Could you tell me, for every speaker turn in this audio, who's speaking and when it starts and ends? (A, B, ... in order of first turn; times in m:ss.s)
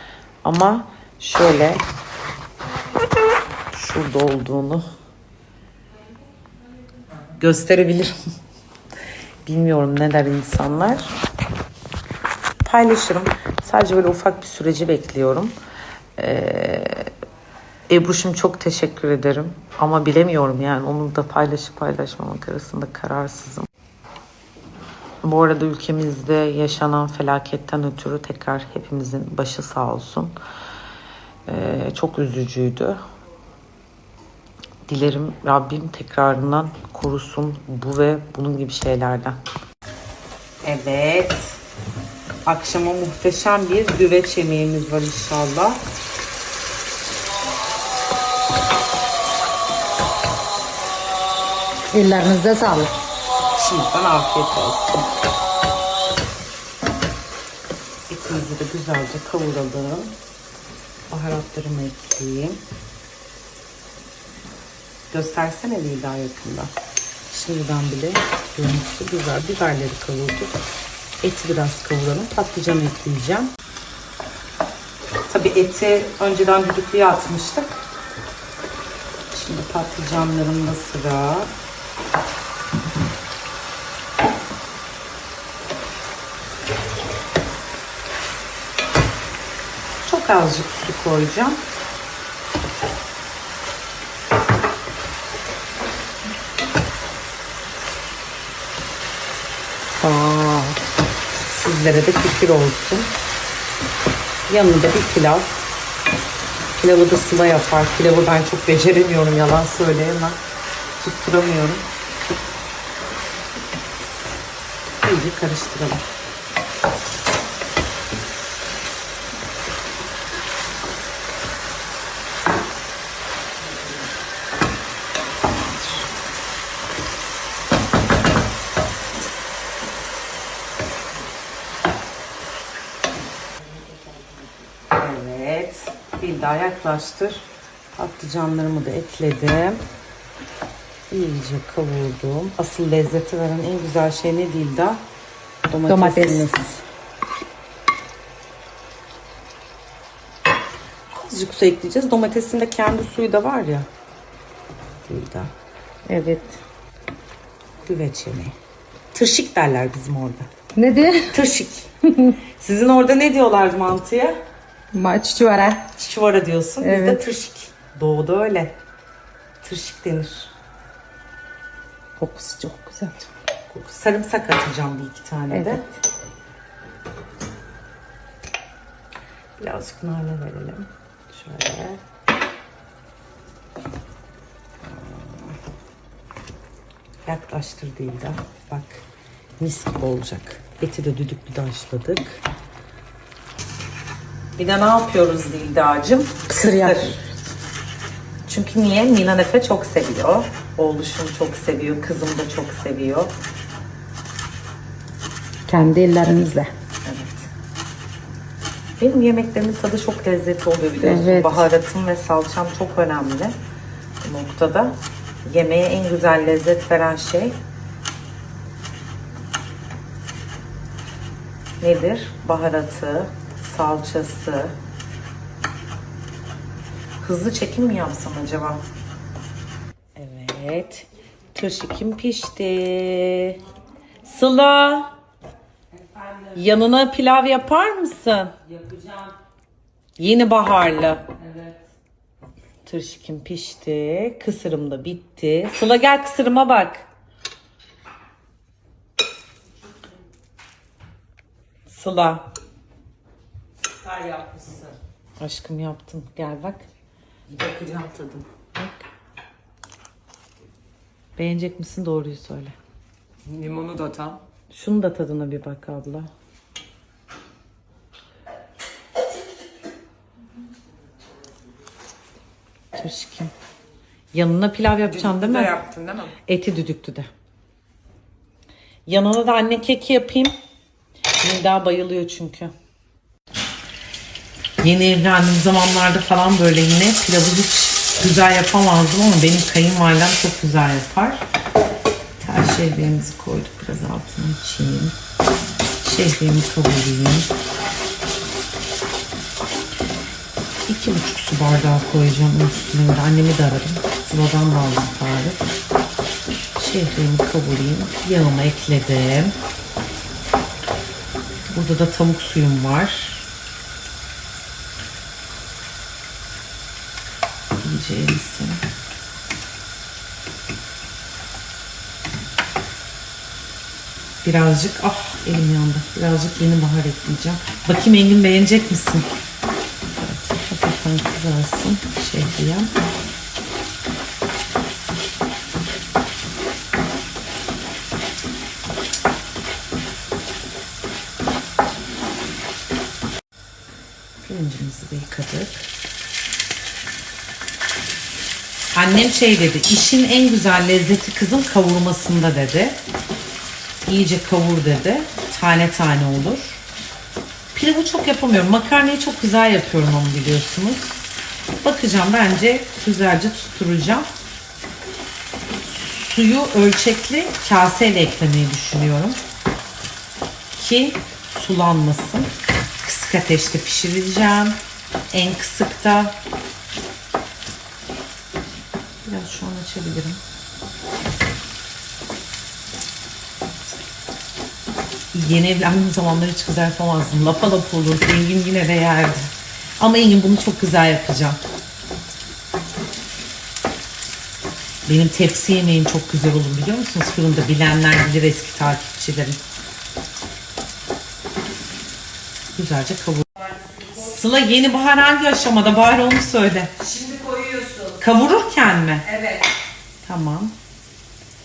0:00.4-0:01.8 A
0:03.7-0:04.8 A
0:07.4-0:08.1 A
0:09.5-0:11.1 A
0:12.6-0:15.5 A
0:16.2-0:17.1 A
0:17.9-0:23.7 A
0:25.2-0:30.3 A
0:31.5-0:33.0 A
0:34.9-0:39.4 A
0:40.6-0:41.6 A
0:42.4-0:45.8 A
0:51.9-0:52.9 B
0:53.6-0:55.1 A
0:58.1-1:00.2 A
1:01.1-1:02.6 A
1:05.1-1:06.7 A
1:07.3-1:10.6 A
1:11.2-1:13.5 A
1:15.3-1:17.8 A
1:19.3-1:21.5 A
1:30.0-1:31.6 A
1:40.0-1:40.8 A
1:41.5-1:43.1 A
1:44.5-1:45.6 A
1:46.8-1:50.4 A
1:51.0-1:51.8 A
1:55.0-1:56.0 A
2:14.8-2:19.8 A
2:21.1-2:25.0 A
2:25.7-2:26.8 A
2:25.9-2:26.8 B
2:31.1-2:33.9 A
2:35.0-2:35.5 A
2:36.1-2:36.6 A
2:37.8-2:38.6 A
2:39.1-2:40.5 A
2:40.8-2:41.4 B
2:41.3-2:44.4 A
2:44.9-2:45.9 B
2:45.9-2:48.8 A
2:46.8-2:47.2 B
2:49.6-2:50.5 A
2:52.2-2:53.3 B
2:53.7-2:55.9 A
2:55.5-2:55.8 B
2:59.6-3:02.0 A
3:04.8-3:05.6 A
3:07.3-3:09.0 A
3:09.6-3:12.4 A
3:14.6-3:17.2 A
3:16.5-3:17.2 B
3:18.5-3:23.3 A
3:25.7-3:26.7 B
3:27.0-3:27.5 A
3:29.0-3:33.6 A
3:31.0-3:31.7 B
3:34.2-3:37.6 A
3:41.8-3:44.8 A
3:47.2-3:48.8 A
3:50.2-3:53.6 A
3:54.2-3:55.1 A
3:56.4-3:58.5 A
4:00.2-4:01.3 A
4:02.8-4:07.1 A
4:11.9-4:12.4 A
4:14.1-4:14.9 C
4:15.4-4:16.9 A
4:17.5-4:18.4 C
4:18.7-4:19.0 A
4:21.4-4:22.8 A
4:23.5-4:24.4 C
4:24.7-4:26.3 A
4:32.9-4:33.5 A
4:34.3-4:37.3 A
4:35.3-4:36.2 C
4:39.1-4:40.6 A
4:41.4-4:42.7 A
4:44.8-4:51.4 A
4:52.4-4:55.2 A
4:56.0-4:57.5 A
5:00.9-5:05.6 A
5:06.8-5:09.6 A
5:11.7-5:13.5 A
5:17.8-5:18.8 A
5:24.4-5:29.3 A
5:30.2-5:32.9 A
5:44.4-5:45.8 A
5:48.9-5:53.0 A
5:54.1-5:56.8 A
5:57.7-6:01.2 A
6:01.8-6:04.3 A
6:06.2-6:09.4 A
6:10.7-6:12.5 A
6:13.0-6:14.8 A
6:15.3-6:16.4 A
6:19.2-6:20.4 A
6:25.3-6:31.6 A
6:35.0-6:39.6 A
6:42.7-6:46.9 A
6:47.2-6:47.9 B
6:48.2-6:49.4 A
6:50.2-6:50.7 A